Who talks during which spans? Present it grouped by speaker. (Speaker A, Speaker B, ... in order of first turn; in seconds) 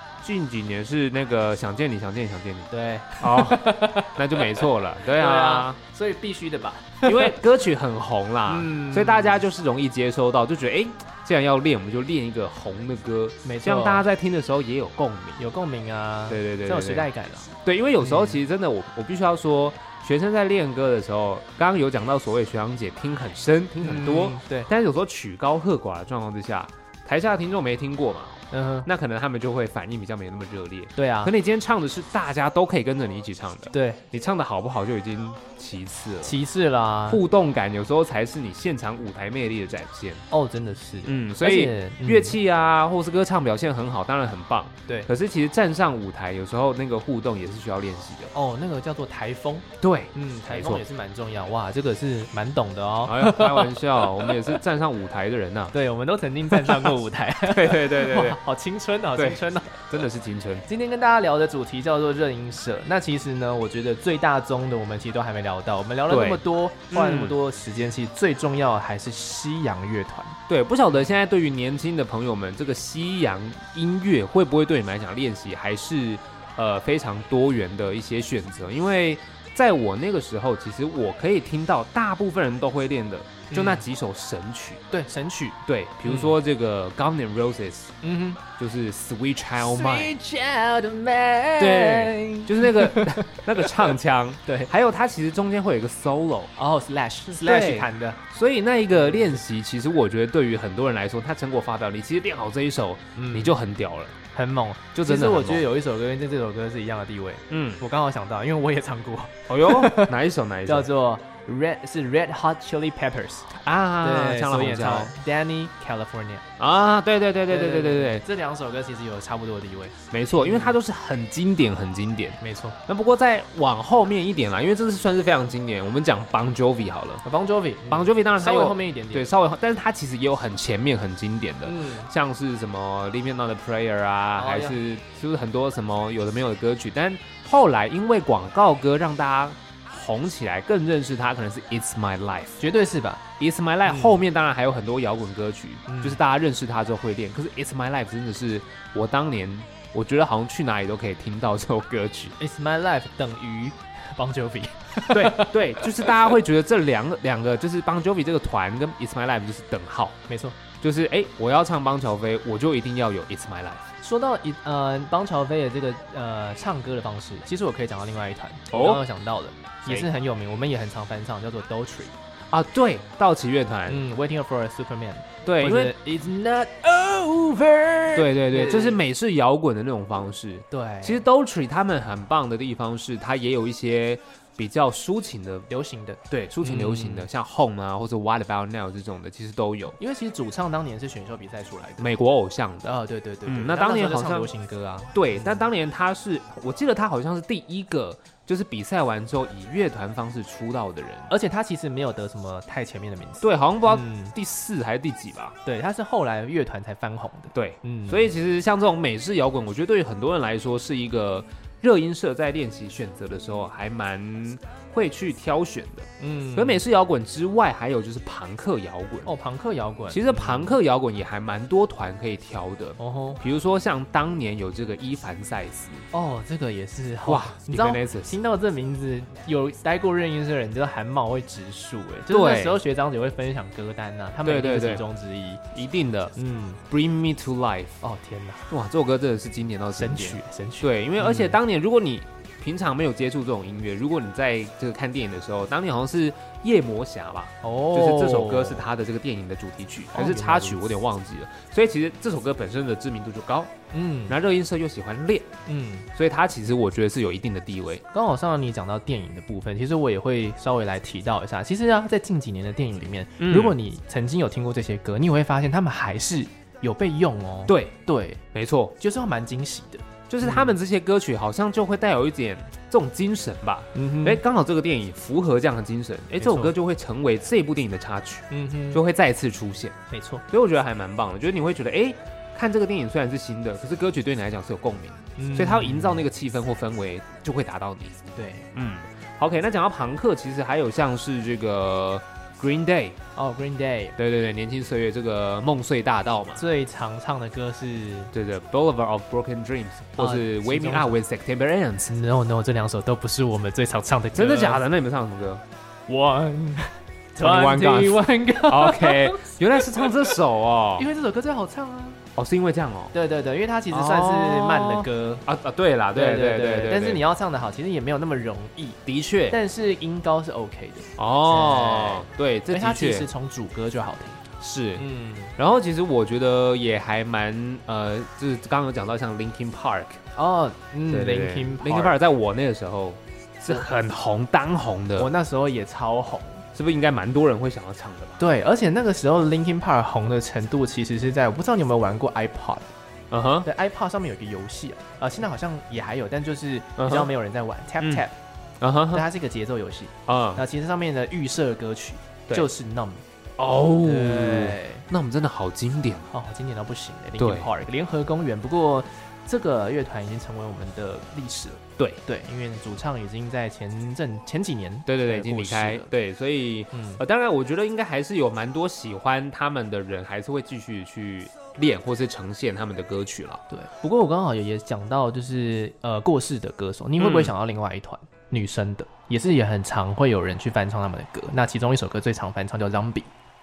Speaker A: 0.2-2.7, 3.2-5.8, 7.0-15.4, 16.3-17.1, 17.6-36.4, 37.1-40.2, 41.1-48.3, 49.8-50.8, 53.1-55.7, 56.5-58.4, 59.2-60.7, 66.1-67.4, 70.5-84.8, 85.7-87.9, 88.6-90.1, 91.6-96.5, 97.3-104.2, 104.9-105.7, 107.5-107.8, 109.5-110.9, 113.6-115.1, 116.6-118.2, 120.1-127.2, 127.9-142.6, 143.4-152.3, 155.1-160.2, 160.8-163.8, 168.7-169.0, 172.5-174.0, 175.4-175.9, 178.2-185.7, 186.3-190.0, 192.0-192.9, 193.5-194.5, 195.1-201.3, 203.4-205.6, 207.5-219.3, 220.1-226.1, 227.3-228.3, 232.3-232.8, 234.4-235.0, 235.7-236.3, 236.9-237.9, 238.7-253.7, 254.3-255.5, 256.1-258.0, 263.4-263.8, 267.7-268.0, 268.5-268.9, 270.3-280.0, 280.5-293.2, 294.2-296.6, 298.3-302.1, 304.3-305.6, 307.4-311.1, 312.4-313.1, 313.9-317.2, 319.1-319.6, 321.2-323.3, 324.6-330.2, 331.1-335.3, 336.8-338.4, 343.3-343.7, 347.0-347.3, 348.8-349.3, 350.3-350.6, 353.6-356.3, 357.4-357.7, 365.1-373.6, 377.2-377.5
Speaker B: 2.7-7.4, 8.5-9.4, 13.4-14.0, 15.4-18.4, 23.8-24.7, 28.5-28.9, 31.0-31.3, 33.7-34.0, 36.2-37.2, 40.3-42.4, 48.3-54.6, 55.7-59.9, 60.7-70.4, 83.5-83.9, 84.9-86.3, 88.0-88.4, 89.6-94.0, 94.5-94.7, 96.6-98.2, 98.9-99.4, 103.2-103.5, 104.3-110.1, 110.7-116.4, 117.5-120.8, 122.4-122.8, 127.2-129.3, 131.7-132.1, 134.4-134.8, 142.6-143.2, 143.8-144.2, 145.9-146.2, 152.4-156.3, 160.3-160.6, 164.0-172.1, 173.9-179.0, 180.7-181.2, 185.7-187.3, 190.0-192.1, 192.8-195.7, 201.3-204.3, 205.7-208.3, 216.2-216.8, 219.2-220.8, 223.0-223.4, 226.1-235.6, 236.4-236.8, 238.0-238.7, 239.9-241.6, 247.6-248.9, 250.1-250.8, 253.9-254.4, 255.7-256.1, 258.1-268.4, 269.0-270.8, 273.9-274.4, 276.4-276.7, 278.5-279.0, 280.1-280.4, 285.4-286.2, 288.4-288.7, 293.4-294.2, 296.6-298.3, 300.2-301.1, 302.1-304.8, 306.1-310.3, 311.0-312.2, 313.1-315.4, 316.1-324.4, 325.0-325.5, 330.4-332.2, 335.2-336.6, 338.4-342.9, 343.6-348.4, 349.1-353.2, 354.0-355.1, 356.3-366.1, 366.9-367.2, 373.7-383.3